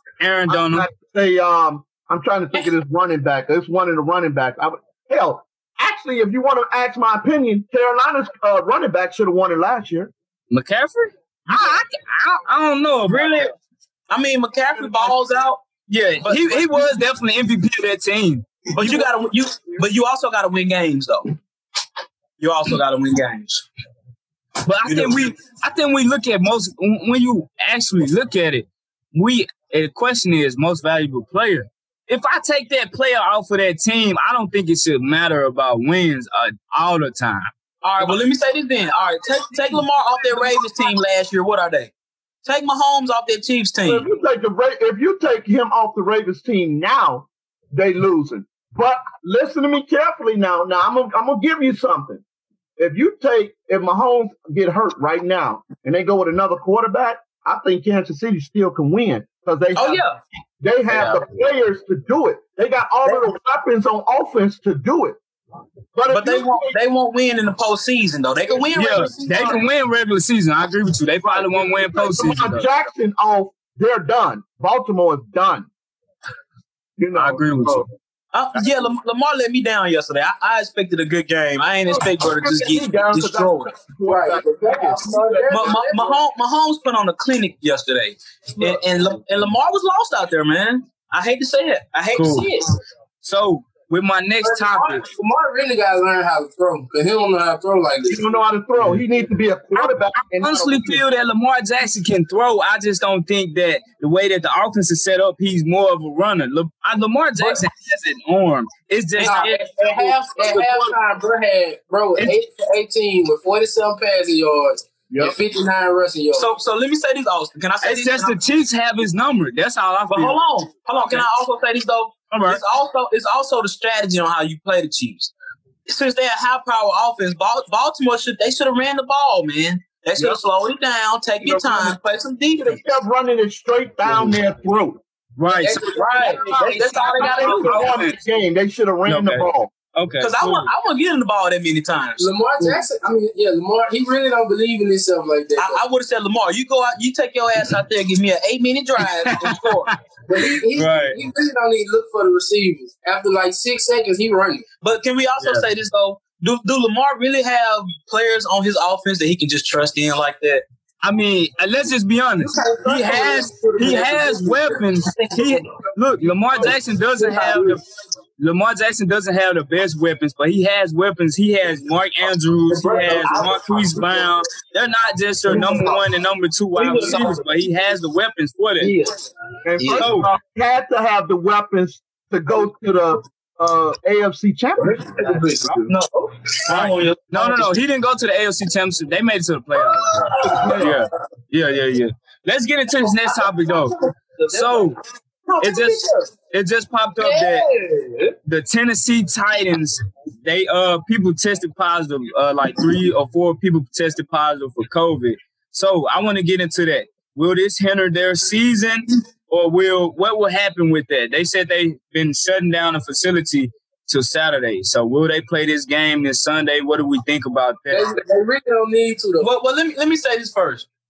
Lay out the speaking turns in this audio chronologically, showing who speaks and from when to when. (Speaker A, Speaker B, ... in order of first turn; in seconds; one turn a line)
Speaker A: 0.2-0.9
Speaker B: 0.5-10.1
Speaker A: 10.5-13.5
Speaker C: 13.1-13.5
Speaker C: 14.1-15.6
Speaker A: 15.9-19.0
Speaker C: 16.2-17.0
Speaker C: 18.7-21.4
Speaker C: 22.4-23.6
Speaker A: 24.6-37.5
Speaker C: 24.8-25.2
Speaker C: 37.8-41.9
Speaker C: 42.4-44.0
Speaker B: 43.8-52.2
Speaker B: 52.8-60.0
Speaker C: 59.7-60.2
Speaker B: 60.6-65.2
Speaker A: 60.9-61.2
Speaker C: 63.0-63.3
Speaker B: 65.9-66.8
Speaker C: 66.1-69.6
Speaker A: 68.7-72.6
Speaker B: 71.2-75.7
Speaker B: 77.0-77.9
Speaker A: 77.2-77.9
Speaker C: 78.3-83.7
Speaker B: 81.9-85.8
Speaker D: 84.0-86.2
Speaker C: 85.5-92.7
Speaker B: 88.6-88.9
Speaker A: 92.1-92.5
Speaker A: 93.2-95.0
Speaker D: 94.4-98.2
Speaker B: 98.0-101.0
Speaker A: 99.8-109.5
Speaker C: 109.2-110.2
Speaker D: 109.2-116.5
Speaker B: 115.1-115.3
Speaker C: 116.3-118.4
Speaker A: 117.8-120.4
Speaker C: 120.1-125.3
Speaker A: 121.0-121.3
Speaker A: 122.3-122.6
Speaker C: 125.8-132.8
Speaker B: 131.4-132.0
Speaker B: 132.6-135.0
Speaker A: 135.4-136.0
Speaker D: 135.5-137.7
Speaker C: 135.9-137.9
Speaker B: 136.2-139.7
Speaker A: 137.2-138.2
Speaker A: 139.1-140.7
Speaker C: 140.2-142.3
Speaker D: 142.2-145.8
Speaker C: 145.6-149.9
Speaker A: 149.2-149.9
Speaker D: 150.3-154.6
Speaker A: 150.7-151.2
Speaker C: 154.8-160.6
Speaker A: 155.4-155.6
Speaker A: 161.0-167.8
Speaker D: 162.4-164.7
Speaker C: 162.6-165.7
Speaker D: 167.2-167.7
Speaker A: 168.4-178.9
Speaker C: 172.7-174.4
Speaker C: 175.5-176.0
Speaker C: 176.7-177.5
Speaker C: 178.8-179.2
Speaker B: 179.6-185.9
Speaker C: 179.8-180.2
Speaker A: 179.9-180.3
Speaker C: 184.8-187.7
Speaker A: 186.7-193.9
Speaker C: 189.8-191.0
Speaker B: 190.5-191.0
Speaker C: 193.0-194.9
Speaker A: 194.5-195.0
Speaker D: 195.6-196.2
Speaker C: 195.6-196.0
Speaker A: 195.6-197.7
Speaker D: 197.2-198.3
Speaker A: 198.4-218.2
Speaker D: 217.9-219.5
Speaker C: 219.4-220.9